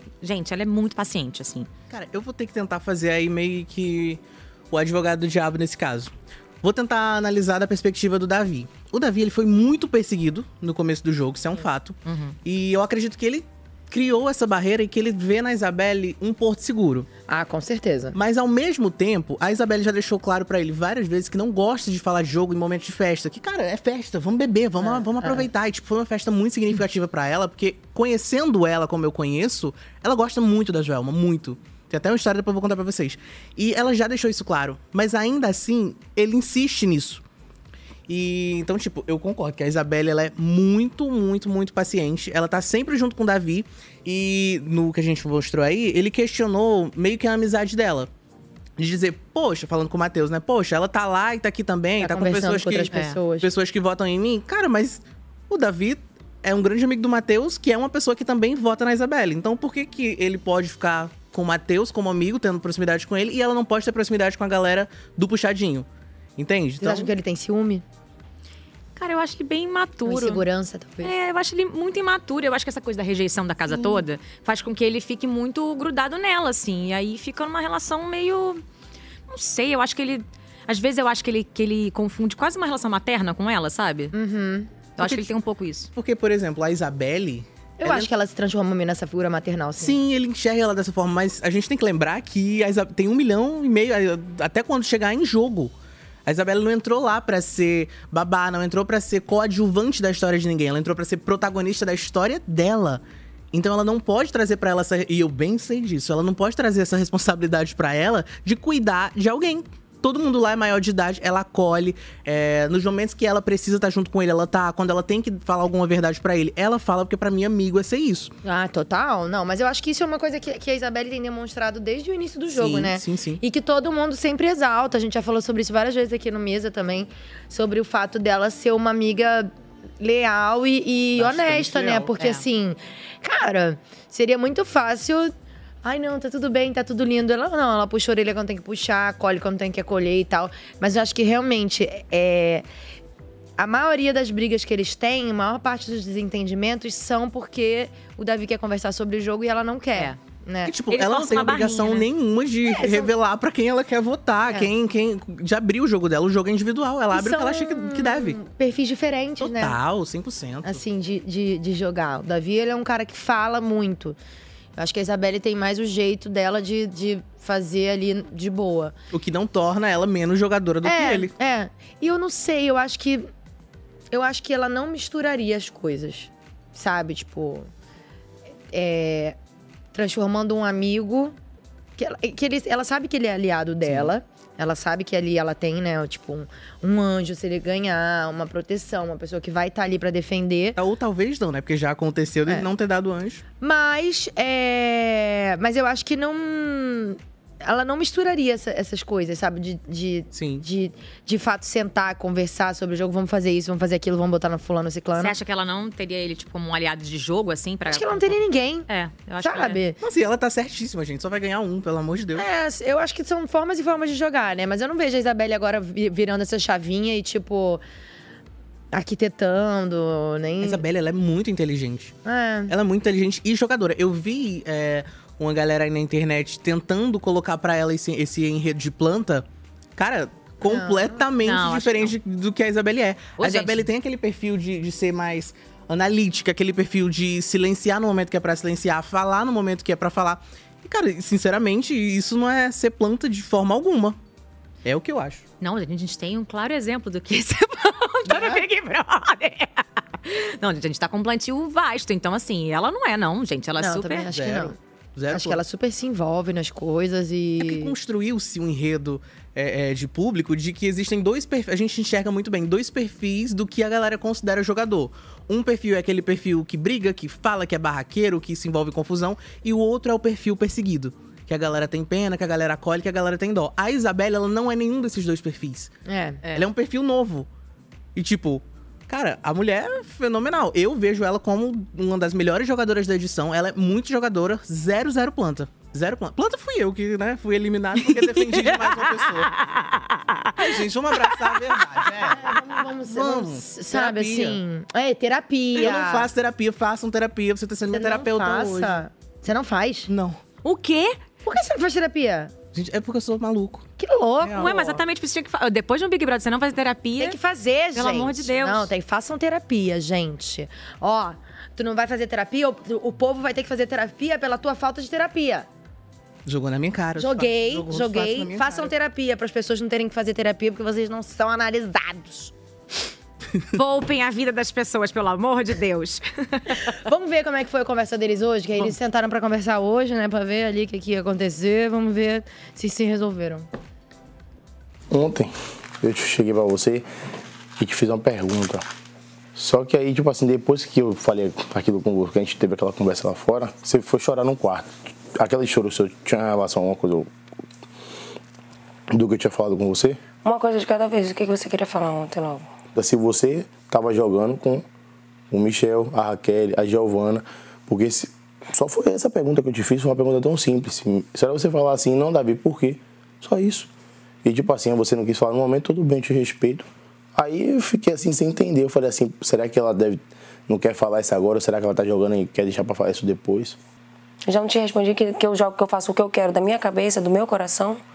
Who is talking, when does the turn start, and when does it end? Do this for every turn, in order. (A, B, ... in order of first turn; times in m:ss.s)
0:00.2-0:01.7 A
0:01.9-0:17.1 B
0:12.0-0:12.4 A
0:17.3-0:18.2 C
0:18.1-0:37.2 B
0:24.8-0:25.5 C
0:38.1-0:48.1 B
0:48.8-1:07.1 B
0:52.0-0:53.5 C
1:06.8-1:07.8 C
1:09.0-1:10.4 A
1:10.0-1:11.1 C
1:11.0-1:18.6 A
1:19.3-1:24.1 A
1:24.1-1:24.7 C
1:25.0-1:25.9 A
1:25.0-1:25.3 B
1:26.0-1:28.1 B
1:27.8-1:30.0 C
1:29.8-1:35.7 B
1:36.2-1:58.3 B
1:58.4-2:15.3 C
2:02.5-2:03.4 B
2:11.2-2:12.1 B
2:15.8-2:22.6 C
2:23.6-2:30.7 C
2:30.6-2:38.4 B
2:30.9-2:32.1 A
2:32.6-2:33.1 C
2:37.1-2:39.8 C
2:39.4-2:40.8 B
2:40.6-2:44.2 C
2:44.8-2:48.9 C
2:49.1-2:51.3 B
2:50.8-2:53.3 C
2:54.1-2:57.7 C
2:58.7-2:59.4 C
2:59.9-3:01.3 C
3:02.0-3:10.8 C
3:10.8-3:13.4 B
3:13.6-3:25.3 C
3:20.3-3:20.6 B
3:25.2-3:29.8 A
3:27.9-3:28.8 C
3:29.4-3:30.0 C
3:30.0-3:32.4 B
3:32.4-3:37.8 C
3:38.9-3:40.8 C
3:40.6-3:42.1 B
3:42.2-3:42.7 C
3:42.7-4:04.2 B
3:50.6-3:51.2 C
3:51.4-3:52.1 A
3:53.4-3:53.9 A
4:04.8-4:05.4 B
4:05.6-4:14.3 A
4:08.3-4:08.6 C
4:13.8-4:14.8 C
4:14.3-4:15.6 B
4:15.3-4:17.9 C
4:17.6-4:35.9 B
4:36.0-4:36.4 C
4:36.5-4:37.5 B
4:38.1-4:49.5 B
4:48.1-4:51.6 A
4:50.6-4:52.5 B
4:52.3-4:56.3 C
4:53.1-4:54.6 B
4:55.8-4:59.0 B
4:57.9-5:00.1 C
5:00.1-5:00.4 B
5:00.6-5:01.2 A
5:01.4-5:02.5 C
5:02.7-5:03.8 B
5:04.0-5:04.6 C
5:04.4-5:05.0 B
5:04.6-5:07.4 A
5:07.2-5:15.7 C
5:07.9-5:08.9 A
5:16.4-5:18.9 B
5:17.2-5:22.5 C
5:23.7-5:27.0 A
5:26.9-5:33.7 C
5:35.1-5:37.1 D
5:37.8-5:38.8 D
5:39.5-5:47.3 D
5:49.1-5:50.2 D
5:50.4-5:52.7 E
5:52.9-5:54.8 D
5:55.5-6:03.9 D
6:04.4-6:13.8 D
6:14.4-6:18.0 E